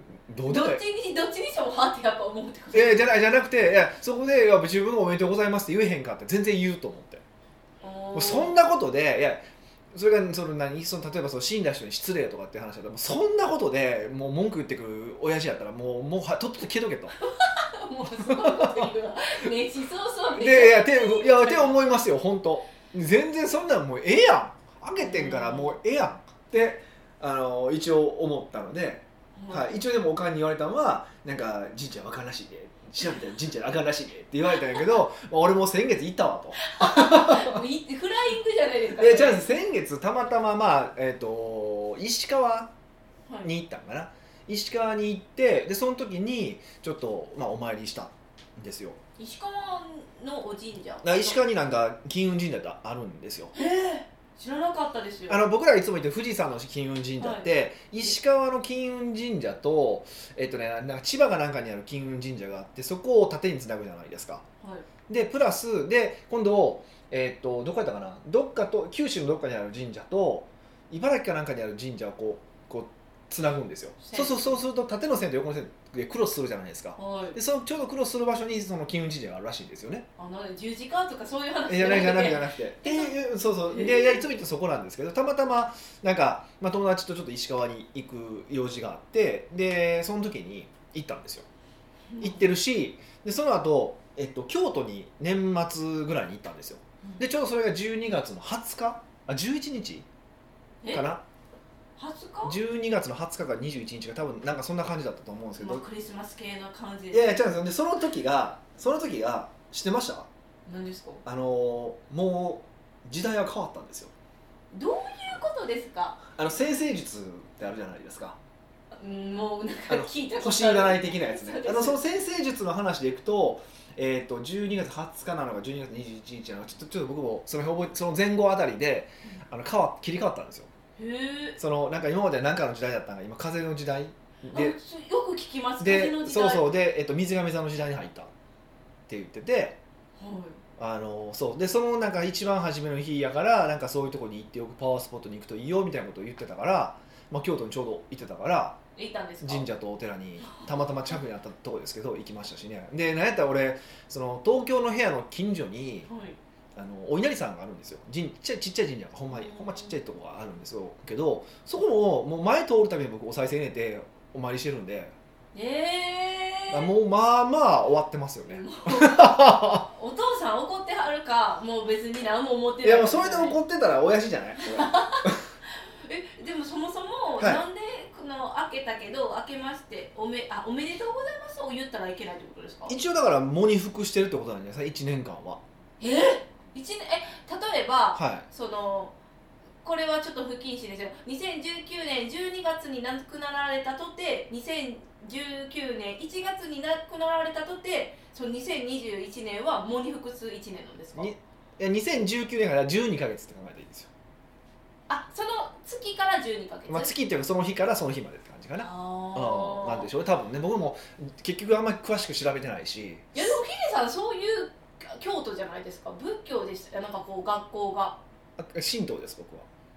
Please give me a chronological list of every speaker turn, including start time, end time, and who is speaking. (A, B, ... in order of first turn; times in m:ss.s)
0:00.3-0:00.8 A
0:00.5-0:03.1 B
0:02.7-0:07.2 A
0:07.8-0:08.6 B
0:08.1-0:17.2 A
0:17.3-0:21.8 B
0:18.1-0:18.9 A
0:20.3-0:37.6 A
0:25.0-0:25.8 B
0:29.4-0:29.8 B
0:36.6-0:39.5 B
0:39.0-0:42.7 A
0:43.4-0:49.0 A
0:49.2-0:51.4 B
0:51.0-0:53.5 A
0:53.5-0:55.4 B
0:55.3-1:04.4 A
0:57.2-0:57.5 B
1:05.1-1:20.1 A
1:14.0-1:14.6 B
1:17.0-1:17.4 B
1:20.2-1:23.1 B
1:21.7-1:31.5 A
1:23.7-1:24.3 B
1:32.1-1:32.5 B
1:32.2-1:40.1 A
1:40.9-1:41.2 A
1:42.0-1:42.6 B
1:42.4-1:45.8 A
1:45.6-1:47.4 B
1:47.1-1:50.3 A
1:50.7-1:51.2 B
1:51.2-1:54.1 A
1:54.7-1:56.2 B
1:56.3-1:58.4 A
1:59.0-2:02.0 B
1:59.9-2:10.7 A
2:11.0-2:11.6 B
2:11.6-2:14.8 A
2:14.5-2:16.7 B
2:15.8-2:18.3 A
2:19.1-2:19.8 A
2:20.2-2:20.6 B
2:20.8-2:28.8 A
2:29.0-2:29.7 B
2:29.4-2:36.1 A
2:30.4-2:31.2 B
2:36.1-2:36.4 B
2:36.8-2:45.2 A
2:39.3-2:40.0 B
2:45.5-2:46.9 B
2:46.7-2:49.8 A
2:48.5-2:53.6 B
2:52.8-2:55.4 A
2:54.6-3:03.0 B
3:02.9-3:05.6 A
3:06.0-3:09.1 B
3:08.2-3:08.5 A
3:09.8-3:21.3 B
3:21.2-3:24.1 A
3:25.1-3:27.1 B
3:26.9-3:33.5 A
3:28.8-3:30.1 B
3:33.3-3:38.2 B
3:38.6-3:39.7 A